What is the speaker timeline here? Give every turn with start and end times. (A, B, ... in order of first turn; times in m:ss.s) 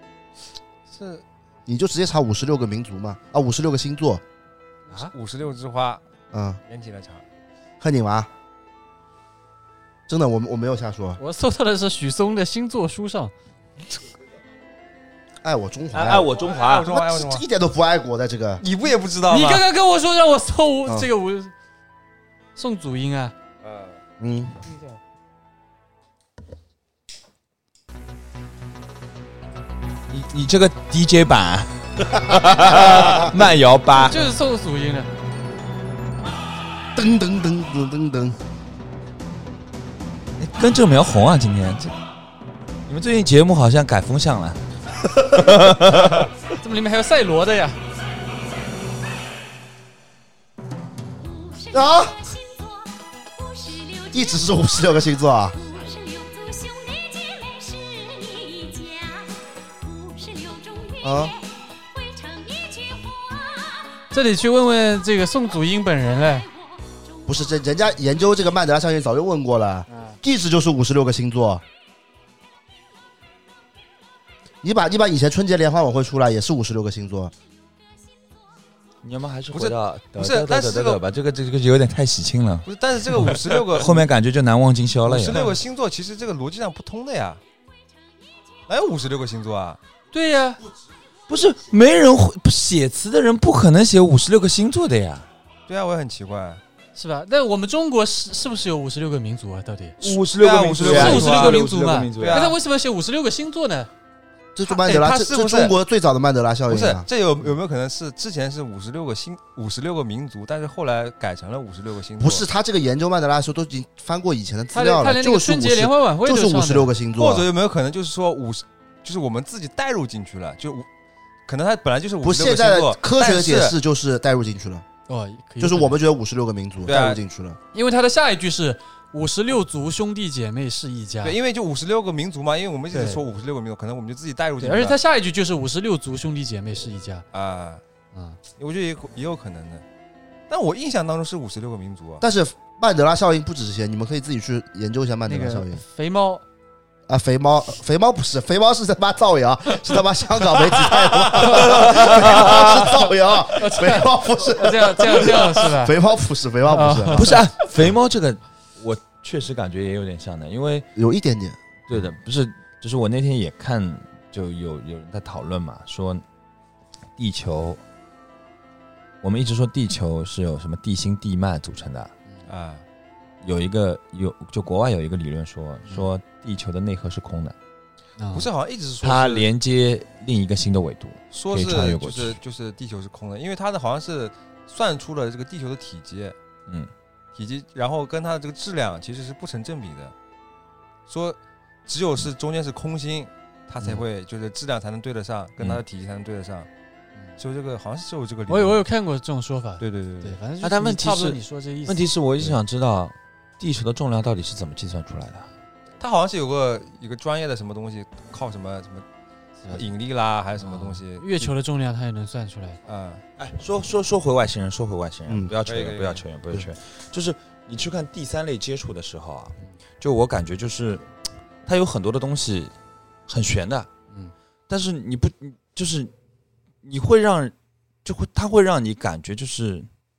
0:00.9-0:01.2 A
0:01.7-0:04.2 B
0:04.9-0:06.0 A
0:06.3-0:06.6 B
0:06.6-0:07.2 A
0:07.8-0:08.3 B
0:10.1-0:11.2 B
0:11.2-0:13.3 C
0:15.4-0:18.6 B
0:15.9-0:16.9 D
0:16.3-0:17.4 A
0:18.6-0:19.6 A
0:19.3-0:21.5 C
0:22.6-0:23.3 C
0:24.2-0:24.6 B
0:30.1-0:34.3 D
0:34.0-0:35.1 C
0:36.9-0:38.4 B
0:40.4-0:41.9 D
0:42.9-0:46.3 D
0:46.6-0:47.8 C
0:51.7-0:52.3 B
0:54.1-0:55.6 B
0:55.9-0:59.0 E
1:01.0-1:01.4 B
1:02.2-1:02.7 E
1:04.1-1:06.5 C
1:07.2-1:11.6 B
1:09.9-1:10.2 C
1:14.6-1:17.3 B
1:19.0-1:25.5 D
1:19.5-1:21.0 A
1:22.6-1:24.1 A
1:25.0-1:27.4 A
1:25.3-1:25.6 C
1:28.7-1:29.8 A
1:30.1-1:30.6 C
1:31.3-1:35.3 D
1:35.7-1:36.6 A
1:36.9-1:40.0 C
1:40.0-1:42.5 D
1:40.0-1:41.6 A
1:40.8-1:43.9 C
1:42.1-1:42.6 A
1:44.5-1:47.1 B
1:44.6-1:45.7 A
1:46.7-1:52.4 A
1:52.2-1:57.5 B
1:54.7-1:56.9 C
1:57.2-2:00.9 A
2:01.4-2:03.8 A
2:02.2-2:04.8 B
2:05.1-2:06.0 C
2:05.6-2:07.6 B
2:06.8-2:07.2 A
2:07.7-2:11.4 C
2:11.2-2:15.0 A
2:12.9-2:13.2 C
2:14.6-2:17.2 C
2:17.3-2:17.8 A
2:18.1-2:18.4 C
2:18.6-2:19.8 A
2:20.5-2:22.2 A
2:22.2-2:25.8 B
2:25.2-2:26.4 C
2:27.1-2:37.4 B
2:31.4-2:32.9 D
2:33.6-2:36.0 C
2:36.6-2:37.3 C
2:37.2-2:40.9 D
2:41.0-2:41.6 B
2:41.9-2:46.2 D
2:47.2-2:47.8 D
2:49.2-2:52.1 D
2:52.4-2:52.8 A
2:53.4-2:57.5 D
2:58.2-2:58.5 C
2:58.3-2:59.5 A
2:59.0-3:02.4 D
3:01.3-3:06.4 A
3:07.3-3:10.1 A
3:11.1-3:16.7 A
3:17.4-3:18.8 A
3:18.5-3:22.0 C
3:19.8-3:20.4 A
3:20.6-3:25.5 D
3:26.0-3:29.0 A
3:29.7-3:31.5 A
3:30.6-3:32.8 C
3:32.8-3:33.2 A
3:33.4-3:41.0 D
3:35.3-3:35.5 B
3:35.6-3:36.2 A
3:41.6-3:42.7 D
3:43.3-3:43.9 D
3:44.7-3:46.1 D
3:46.8-3:47.5 D
3:48.0-3:49.9 D